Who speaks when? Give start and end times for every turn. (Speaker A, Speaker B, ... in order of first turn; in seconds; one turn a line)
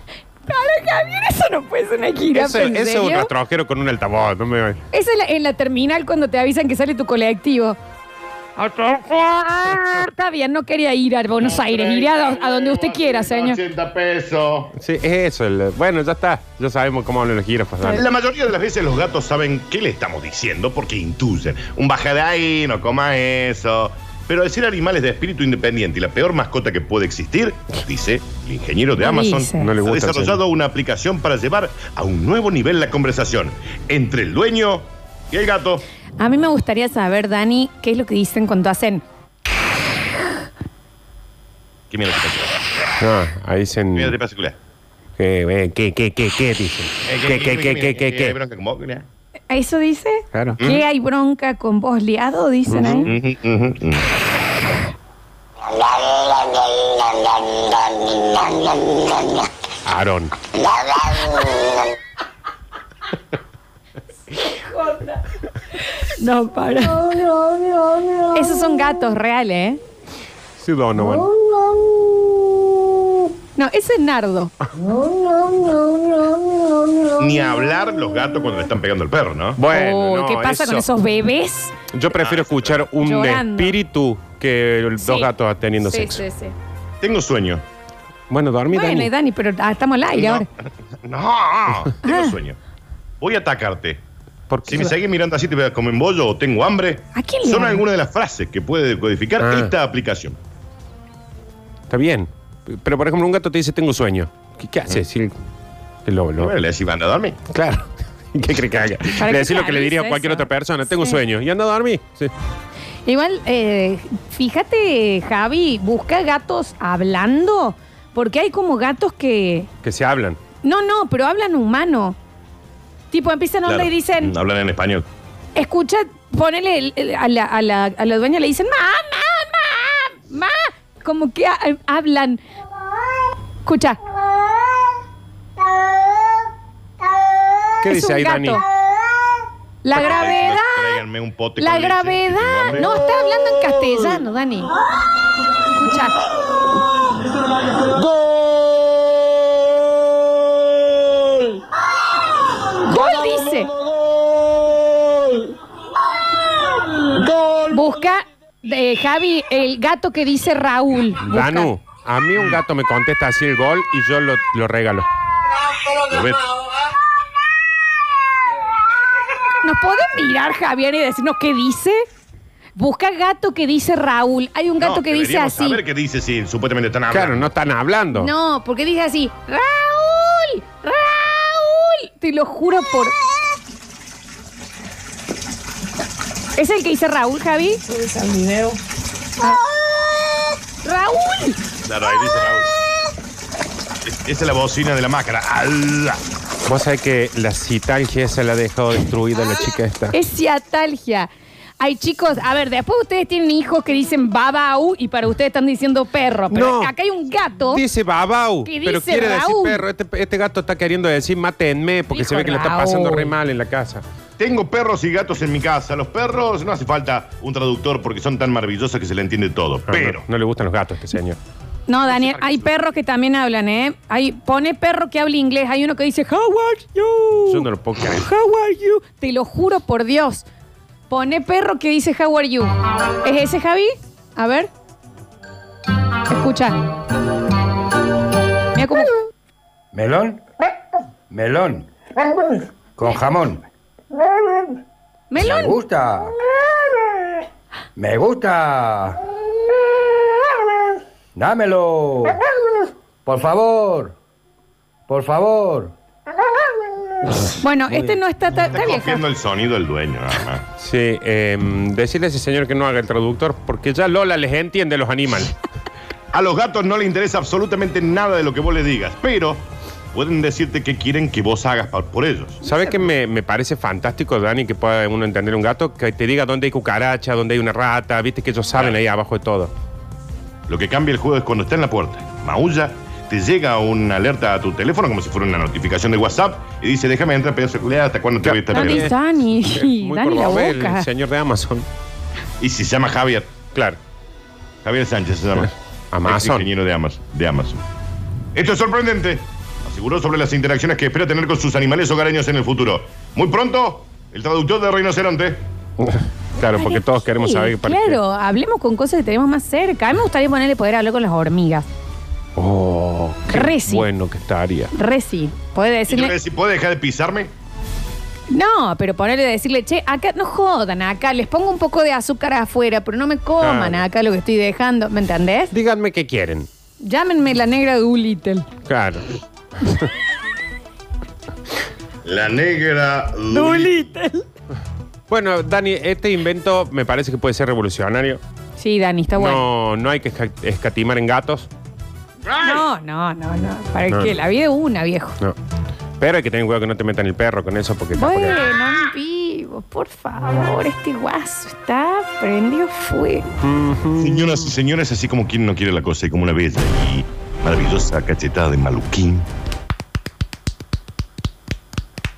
Speaker A: 0.5-3.3
Speaker B: 2.3-4.8
Speaker A: 4.9-7.8
Speaker A: 8.6-13.6
Speaker C: 11.4-14.7
Speaker B: 14.8-18.0
Speaker C: 17.9-35.8
Speaker A: 29.0-29.7
Speaker B: 29.6-30.4
Speaker A: 36.2-39.0
Speaker C: 41.9-42.6
Speaker B: 43.0-44.1
Speaker C: 43.9-44.6
Speaker B: 45.2-48.4
Speaker C: 47.0-49.1
Speaker A: 49.5-53.1
Speaker B: 50.3-50.6
Speaker B: 52.7-53.1
Speaker C: 53.0-54.1
Speaker B: 59.8-60.3
Speaker A: 64.5-65.2
Speaker A: 66.0-67.2
Speaker A: 68.3-69.8
Speaker B: 70.6-71.3
Speaker A: 73.5-74.5
Speaker C: 77.2-79.6
Speaker B: 79.6-80.8
Speaker A: 79.7-81.7
Speaker B: 81.9-86.2
Speaker C: 82.1-82.8
Speaker A: 83.0-83.7
Speaker A: 85.0-85.3
Speaker A: 85.8-86.5
Speaker C: 87.0-87.6
Speaker B: 88.3-89.1
Speaker A: 88.7-90.5
Speaker C: 90.1-92.6
Speaker A: 92.0-92.4
Speaker C: 93.2-94.0
Speaker B: 94.5-94.9
Speaker C: 94.7-100.4
Speaker A: 97.1-97.8
Speaker B: 99.4-99.7
Speaker B: 101.9-105.3
Speaker B: 106.0-106.5
Speaker C: 106.4-107.4
Speaker B: 107.5-112.3
Speaker A: 109.1-110.5
Speaker A: 113.0-119.7
Speaker B: 119.8-120.4
Speaker A: 120.6-122.2
Speaker A: 123.1-124.3
Speaker C: 123.7-125.0
Speaker A: 125.5-132.4
Speaker A: 133.7-134.0
Speaker A: 137.8-138.6
Speaker B: 137.8-138.6
Speaker A: 139.8-141.0
Speaker C: 139.9-143.0
Speaker A: 141.6-144.7
Speaker A: 145.7-146.2
Speaker A: 152.8-153.7
Speaker A: 157.7-161.7
Speaker B: 161.2-165.1
Speaker C: 166.1-166.5
Speaker A: 169.6-172.0
Speaker A: 172.8-175.8
Speaker C: 174.8-177.5
Speaker B: 177.1-178.3
Speaker A: 178.1-183.2
Speaker A: 186.6-188.8
Speaker A: 189.4-189.6
Speaker A: 190.8-191.6
Speaker C: 191.8-192.8
Speaker C: 194.0-196.2
Speaker B: 196.7-200.2
Speaker A: 200.1-207.8
Speaker B: 206.5-206.9
Speaker B: 207.7-214.0
Speaker A: 208.6-209.8
Speaker A: 212.1-213.3
Speaker C: 214.4-220.2
Speaker B: 219.9-221.4
Speaker A: 221.9-230.4
Speaker C: 222.1-222.7
Speaker B: 227.5-228.3
Speaker A: 231.1-234.7
Speaker A: 236.3-236.8
Speaker A: 238.7-239.1
Speaker D: 239.9-240.4
Speaker D: 241.3-241.9
Speaker D: 242.9-243.7
Speaker A: 245.3-245.8
Speaker D: 245.4-246.3
Speaker D: 247.9-249.2
Speaker D: 251.3-252.4
Speaker D: 253.2-254.2
Speaker D: 255.1-255.9
Speaker A: 257.6-259.2
Speaker C: 258.6-260.6
Speaker B: 260.8-265.5
Speaker C: 266.3-272.6
Speaker B: 272.6-279.7
Speaker C: 280.7-289.1
Speaker B: 288.4-289.1
Speaker A: 288.7-291.1
Speaker B: 289.7-291.9
Speaker C: 292.6-293.5
Speaker C: 294.8-297.8
Speaker B: 296.1-296.7
Speaker C: 298.5-305.6
Speaker B: 306.0-308.2
Speaker A: 306.7-311.9
Speaker B: 312.6-314.9
Speaker A: 313.5-314.1
Speaker A: 314.9-316.3
Speaker C: 316.1-317.5
Speaker A: 318.5-325.7
Speaker B: 323.6-324.0
Speaker B: 325.7-326.7
Speaker A: 327.0-328.7
Speaker B: 328.9-329.2
Speaker B: 329.8-330.1
Speaker C: 332.2-334.0
Speaker A: 333.5-334.4
Speaker B: 335.3-338.4
Speaker A: 338.8-339.7
Speaker B: 339.4-341.7
Speaker A: 342.5-345.4
Speaker B: 346.2-348.6
Speaker A: 348.2-353.5
Speaker B: 353.6-354.5
Speaker C: 354.1-359.5